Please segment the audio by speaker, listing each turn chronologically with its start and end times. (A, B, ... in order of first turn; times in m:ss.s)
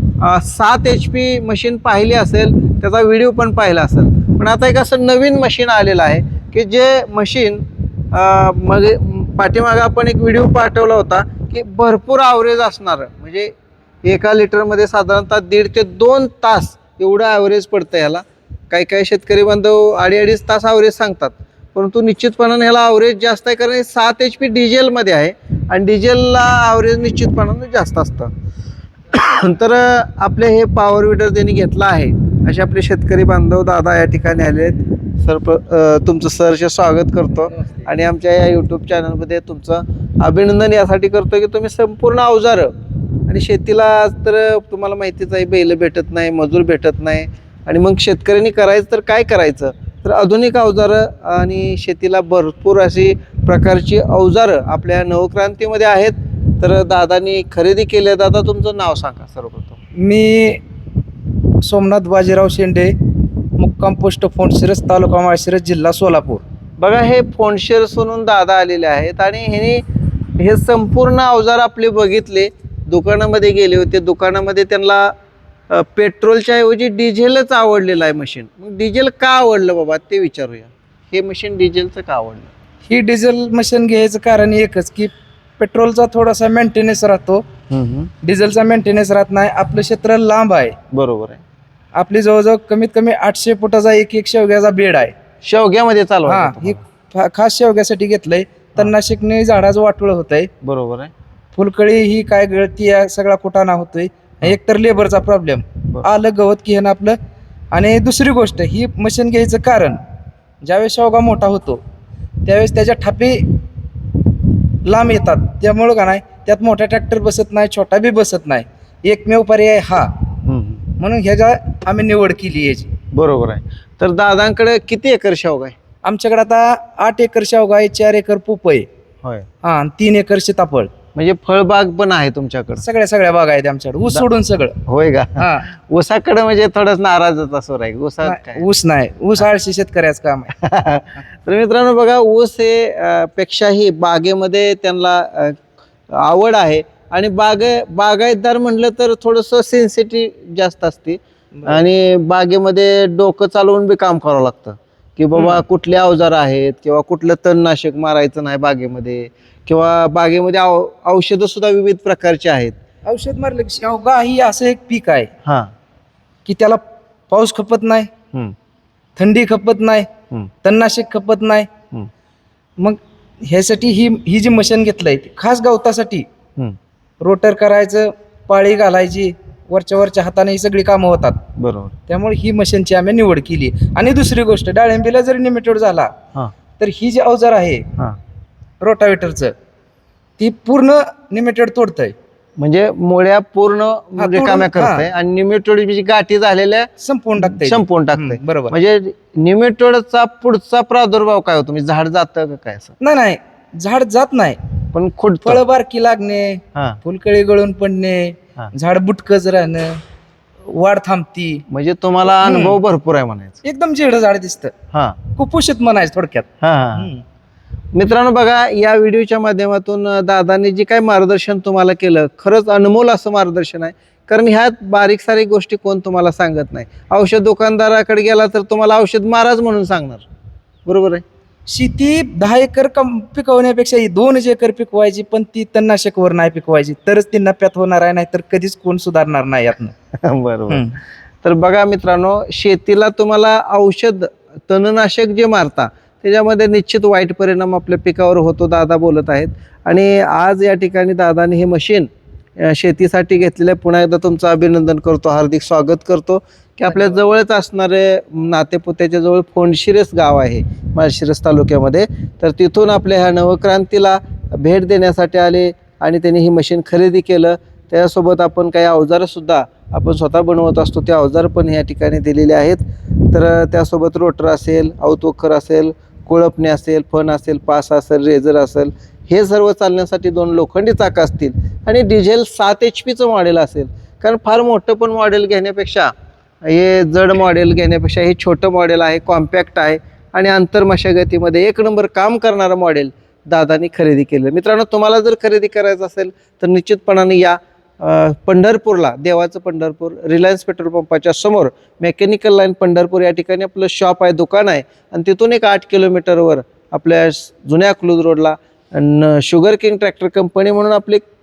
0:00.2-0:13.5 A
0:14.0-0:28.3 A
0:29.1-0:42.7 A
0:43.3-0:59.8 A
1:00.0-1:00.6 B
1:01.6-1:02.9 B
1:03.6-1:06.4 B
1:06.8-1:09.8 A
1:10.4-1:15.1 A
1:15.7-1:22.5 A
1:22.8-1:27.4 B
1:27.7-1:28.1 A
1:28.2-1:30.8 B
1:30.9-1:31.4 A
1:32.0-1:35.1 B
1:35.4-1:36.8 A
1:36.2-1:40.5 B
1:40.6-1:41.1 A
1:41.5-1:47.2 B
1:47.7-1:50.0 B
1:50.6-1:51.8 B
1:52.4-1:53.5 B
1:54.8-2:00.1 B
2:00.4-2:00.9 A
2:01.0-2:02.9 B
2:03.1-2:05.8 A
2:06.0-2:08.9 B
2:09.6-2:10.9 B
2:11.1-2:12.8 A
2:12.8-2:14.8 B
2:14.9-2:18.6 A
2:15.4-2:15.6 B
2:18.2-2:20.5 B
2:20.5-2:42.7 A
2:35.3-2:35.6 B
2:43.0-2:45.3 B
2:45.4-2:45.7 A
2:46.4-2:48.1 B
2:49.2-2:50.1 B
2:50.6-2:51.7 B
2:52.8-2:56.2 B
2:57.2-3:01.4 B
3:01.6-3:01.9 A
3:02.1-3:06.1 B
3:06.8-3:07.8 B
3:08.8-3:09.5 B
3:10.4-3:12.1 B
3:12.6-3:23.0 A
3:14.2-3:15.0 B
3:17.0-3:18.7 B
3:23.0-3:24.6 B
3:24.9-3:25.6 A
3:25.4-3:30.0 B
3:26.7-3:27.0 A
3:30.7-3:31.6 B
3:31.7-3:33.6 A
3:32.4-3:32.8 B
3:33.6-3:34.7 B
3:34.9-3:35.2 A
3:35.4-3:37.2 B
3:36.6-3:37.1 A
3:37.9-3:50.2 A
3:50.8-3:51.2 A
3:51.7-3:59.9 B
4:00.1-4:00.9 A
4:00.7-4:01.0 B
4:01.4-4:46.1 A
4:46.6-5:11.2 A